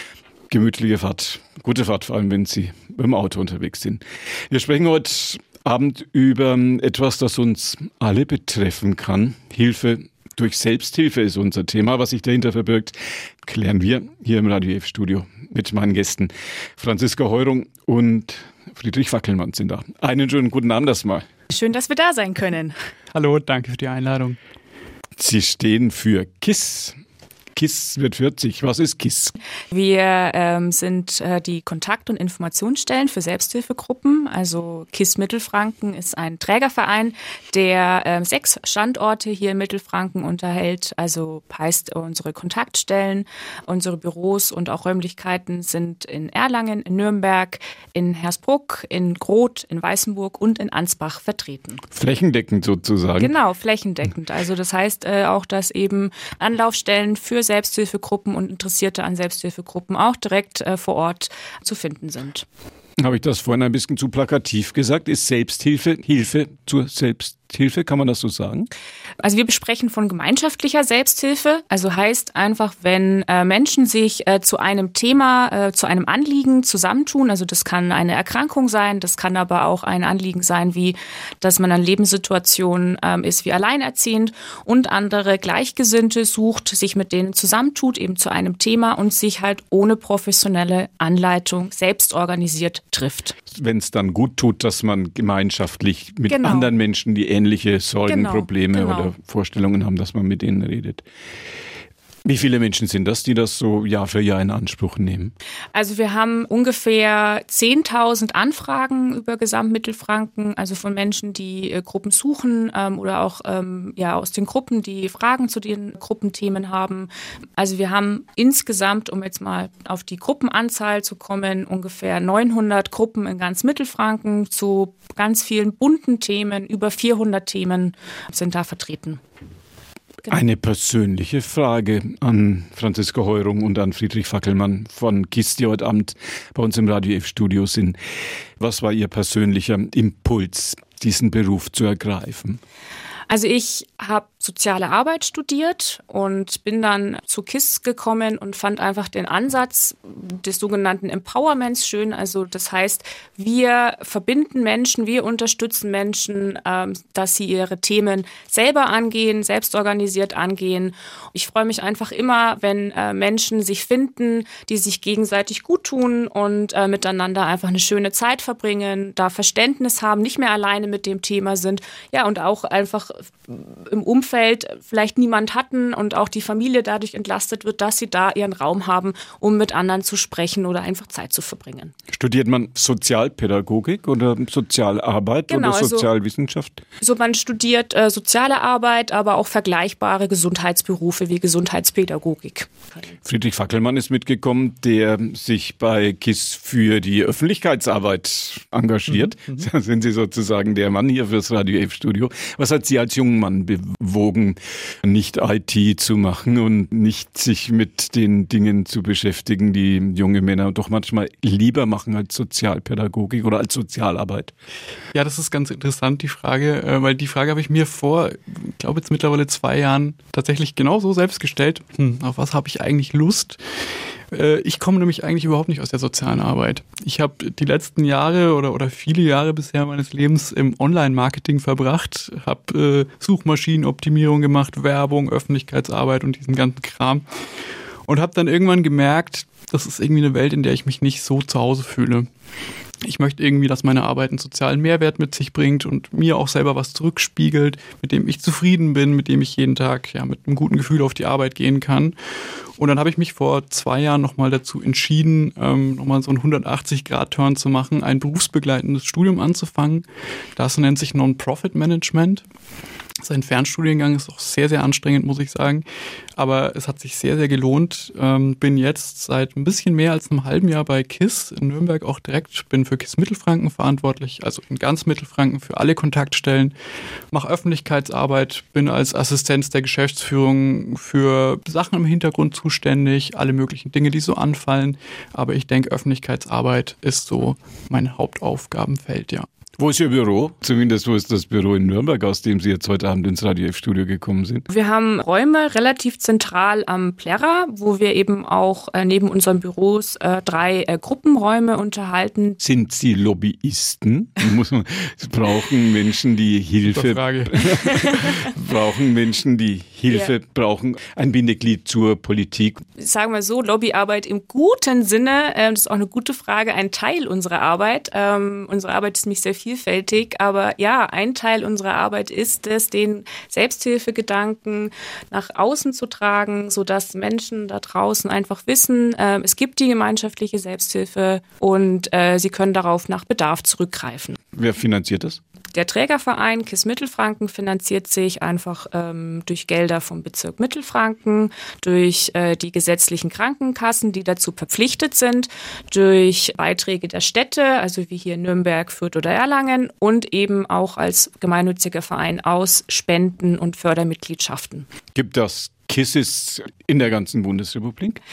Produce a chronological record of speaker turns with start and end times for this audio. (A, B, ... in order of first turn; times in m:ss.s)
0:00.5-0:21.3 A
0:21.5-0:22.8 B
0:23.1-0:24.4 C
0:25.2-0:27.0 A
0:27.5-0:29.3 A
0:29.7-0:51.8 B
0:51.9-0:53.3 A
0:53.2-1:02.4 B
1:03.0-1:08.7 A
1:09.2-1:33.3 B
1:33.5-1:41.0 A
1:36.3-1:36.7 B
1:38.1-1:39.1 B
1:42.2-1:45.3 A
1:45.7-2:09.2 B
2:10.3-2:18.0 A
2:18.6-2:22.6 A
2:23.3-3:01.9 B
3:02.1-3:06.8 A
3:05.5-3:06.1 B
3:07.0-3:12.9 B
3:13.2-3:34.5 A
3:35.1-3:43.6 C
3:44.3-3:57.2 C
3:58.1-4:02.3 C
4:03.0-4:12.1 C
4:12.8-4:20.0 C
4:20.6-4:22.4 C
4:23.2-4:25.8 C
4:26.4-4:36.7 C
4:37.3-4:49.5 C
4:49.8-4:54.6 A
4:54.7-5:02.6 B
5:02.6-5:12.8 A
5:06.9-5:08.2 C
5:13.0-5:34.4 B
5:34.5-5:35.4 A
5:35.7-5:54.9 B
5:55.1-5:58.2 A